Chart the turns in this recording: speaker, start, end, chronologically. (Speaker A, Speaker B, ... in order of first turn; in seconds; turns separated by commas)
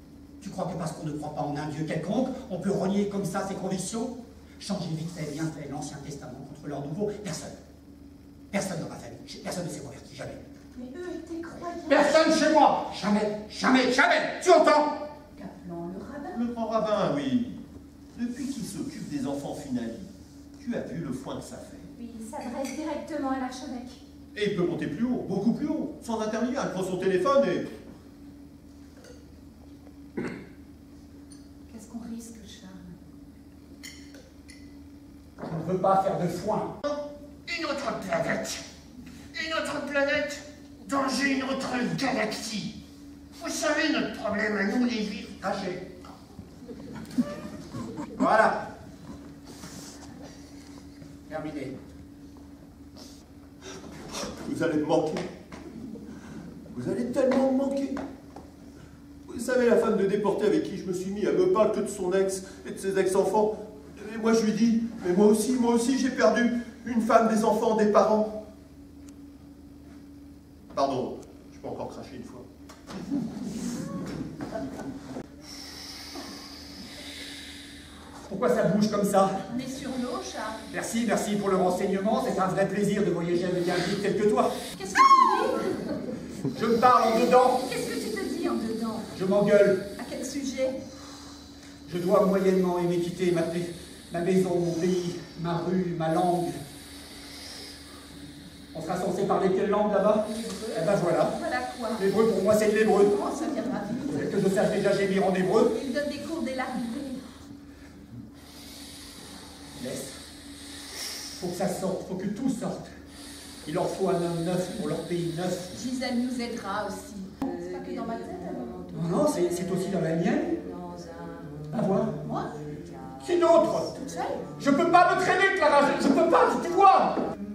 Speaker A: 0.4-7.5, Speaker A: 8.5-10.4, Speaker B: 10.8-12.2, Speaker A: 11.9-15.0, Speaker B: 15.4-16.4, Speaker C: 16.3-17.6, Speaker C: 18.1-21.9, Speaker B: 22.0-24.0, Speaker C: 24.3-27.7, Speaker B: 31.7-33.0, Speaker A: 35.4-36.7, Speaker D: 37.5-38.6, Speaker D: 39.3-42.7, Speaker C: 39.6-40.3, Speaker C: 41.0-41.8, Speaker D: 43.4-45.5, Speaker A: 48.2-48.6, Speaker A: 51.3-51.7, Speaker C: 54.1-55.3, Speaker C: 56.7-58.0, Speaker C: 59.3-68.4, Speaker C: 70.7-72.4, Speaker A: 78.3-79.4, Speaker B: 79.5-80.6, Speaker A: 80.7-84.5, Speaker B: 84.7-85.9, Speaker A: 86.5-87.6, Speaker B: 87.4-89.1, Speaker A: 89.1-89.9, Speaker B: 90.0-90.8, Speaker A: 91.8-96.5, Speaker A: 98.7-101.4, Speaker B: 100.7-102.0, Speaker A: 102.0-103.2, Speaker B: 102.8-104.2, Speaker A: 104.1-105.7, Speaker B: 105.6-107.2, Speaker A: 109.8-110.2, Speaker A: 111.4-112.9, Speaker A: 113.6-115.7, Speaker B: 115.7-118.9, Speaker A: 118.9-120.6, Speaker A: 121.7-122.1, Speaker B: 122.2-122.5, Speaker A: 123.2-124.0, Speaker B: 124.0-124.4, Speaker A: 124.6-127.2